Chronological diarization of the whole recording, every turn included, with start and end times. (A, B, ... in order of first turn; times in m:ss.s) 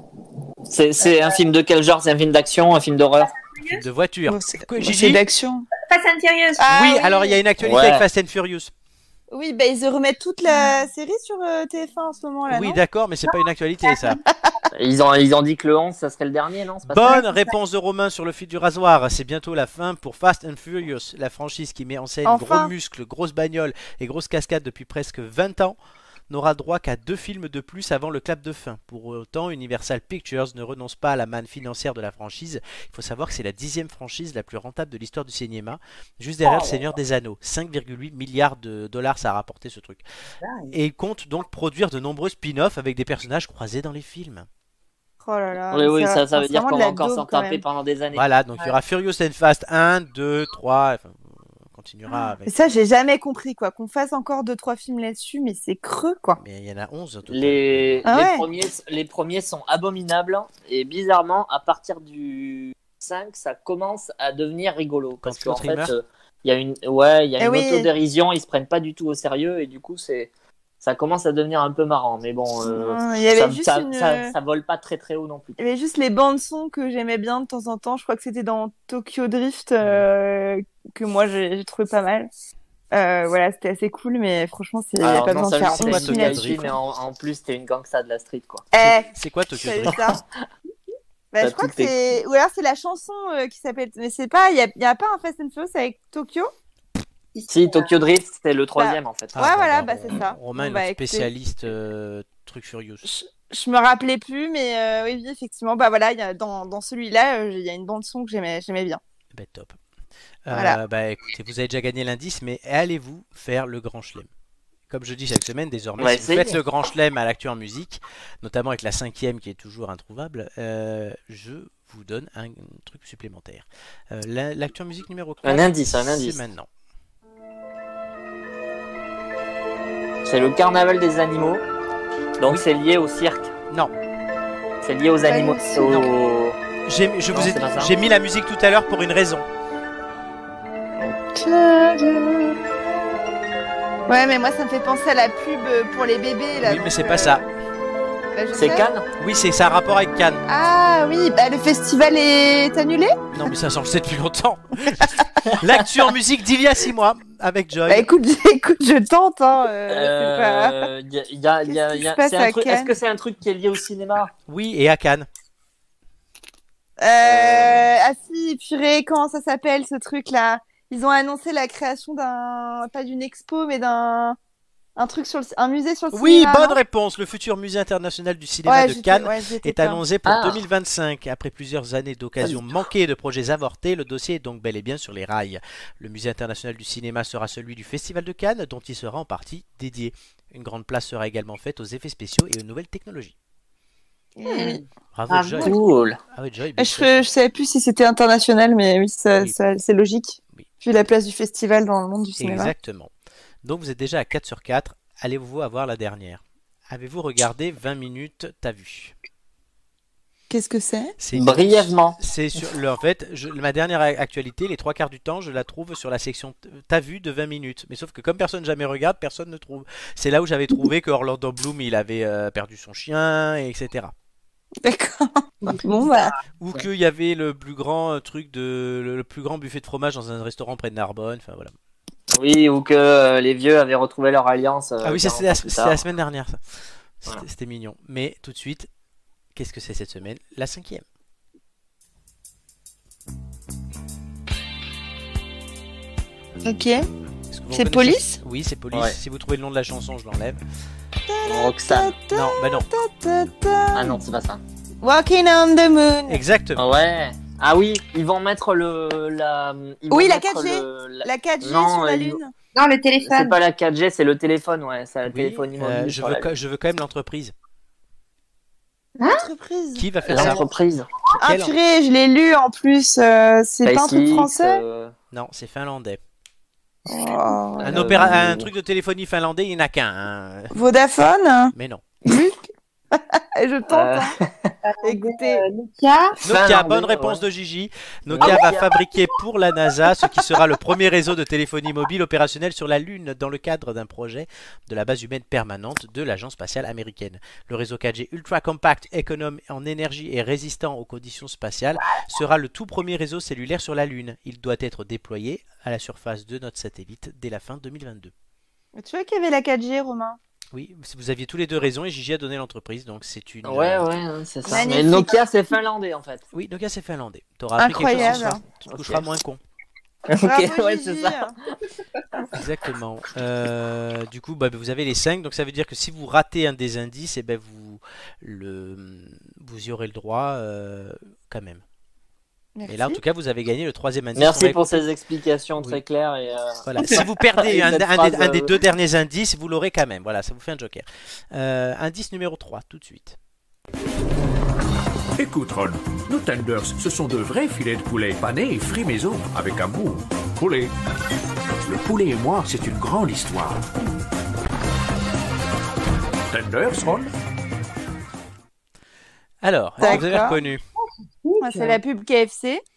0:00.7-0:03.4 A
0:01.0-0:01.4 B
0:03.2-0:03.8 B
0:03.7-0:05.2 C
0:04.3-0:05.6 D
0:05.8-0:06.6 B
0:06.6-0:07.4 D
0:06.7-0:08.7 C
0:07.6-0:08.0 A
0:09.3-0:12.8 D
0:12.5-0:14.2 C
0:14.7-0:17.2 A
0:16.9-0:25.8 C
0:22.2-0:22.7 D
0:26.3-0:40.0 C
0:36.4-0:37.0 B
0:40.4-0:40.8 B
0:40.7-0:44.5 C
0:45.2-0:47.6 D
0:45.7-0:48.2 A
0:48.1-0:52.5 C
0:52.4-0:56.4 D
0:56.4-0:58.0 C
0:57.3-1:15.6 A
0:58.0-0:58.4 D
1:05.2-1:05.9 C
1:07.4-1:07.9 D
1:12.7-1:14.3 D
1:15.6-1:22.3 D
1:22.9-1:26.7 D
1:25.0-1:28.7 A
1:25.7-1:26.7 C
1:28.7-1:30.2 D
1:28.8-1:30.0 C
1:31.3-1:36.5 D
1:31.4-1:31.9 A
1:37.3-1:37.9 B
1:37.5-1:39.3 A
1:38.8-1:41.3 D
1:39.3-1:43.0 C
1:43.0-1:49.0 D
1:49.3-1:49.8 C
1:50.4-1:54.3 C
1:50.5-1:50.8 D
1:54.9-2:06.7 C
1:56.0-1:56.6 A
2:05.4-2:06.4 A
2:10.2-2:11.6 A
2:12.4-2:13.5 A
2:14.8-2:16.6 A
2:15.3-2:16.0 D
2:16.8-2:19.4 C
2:17.3-2:17.9 A
2:21.0-2:22.6 D
2:24.1-2:27.4 D
2:26.6-2:27.4 C
2:28.3-2:28.9 D
2:28.5-2:29.0 A
2:29.2-2:30.4 C
2:30.5-2:33.1 D
2:33.3-2:38.1 C
2:35.4-2:35.9 A
2:37.9-2:40.9 D
2:39.9-2:44.3 A
2:41.7-2:42.9 D
2:44.5-2:45.3 C
2:47.0-2:54.4 D
2:47.2-2:47.9 A
2:55.0-2:56.8 D
2:56.1-3:13.3 C
2:58.6-3:00.0 D
3:00.2-3:00.6 A
3:14.4-3:14.8 D
3:14.5-3:15.7 B
3:15.1-3:15.8 C
3:15.6-3:16.2 A
3:16.3-3:17.2 C
3:16.8-3:22.7 D
3:22.4-3:23.1 C
3:23.6-3:29.1 C
3:30.5-3:31.1 D
3:31.2-3:44.1 C
3:31.3-3:32.2 A
3:44.8-3:46.3 D
3:45.6-3:46.3 B
3:46.6-3:51.7 C
3:52.3-3:56.0 A
3:55.0-3:56.6 C
3:57.2-3:58.9 C
3:59.5-4:01.0 C
4:06.6-4:07.0 D
4:07.5-4:10.6 C
4:07.7-4:08.4 D
4:11.3-4:14.2 D
4:11.5-4:12.1 A
4:12.3-4:12.9 C
4:13.9-4:14.6 A
4:15.0-4:16.4 D
4:16.3-4:16.8 C
4:16.8-4:22.4 A
4:20.1-4:22.5 D
4:22.7-4:23.6 B
4:23.2-4:26.5 A
4:25.2-4:27.5 C
4:29.2-4:29.4 B
4:29.3-4:30.6 D
4:30.0-4:30.6 C
4:30.3-4:31.1 A
4:31.4-4:34.8 D
4:31.4-4:31.7 C
4:33.8-4:35.1 A
4:35.3-4:36.2 C
4:37.1-4:38.0 D
4:37.8-4:40.7 C
4:37.8-4:38.7 A
4:40.7-4:41.7 D
4:41.7-4:42.0 C
4:42.2-4:44.3 D
4:43.9-4:44.7 A
4:44.8-4:46.4 B
4:45.0-4:45.6 D
4:46.4-4:47.4 A
4:46.4-5:08.3 C
4:48.3-4:48.9 A
5:09.0-5:10.4 D
5:10.7-5:14.0 C
5:13.6-5:16.4 A
5:14.7-5:15.4 D
5:16.5-5:19.6 C
5:17.8-5:18.6 D
5:18.1-5:19.2 A
5:20.3-5:21.7 A
5:20.4-5:21.5 D
5:22.5-5:31.8 C
5:32.8-5:33.2 D
5:32.9-5:35.0 C
5:34.4-5:38.7 A
5:36.8-5:43.4 C
5:45.4-5:50.9 E
5:51.8-5:53.9 E
5:56.5-5:57.3 E
5:59.6-6:00.8 C
6:00.0-6:00.5 D
6:00.0-6:02.0 B
6:01.6-6:02.8 D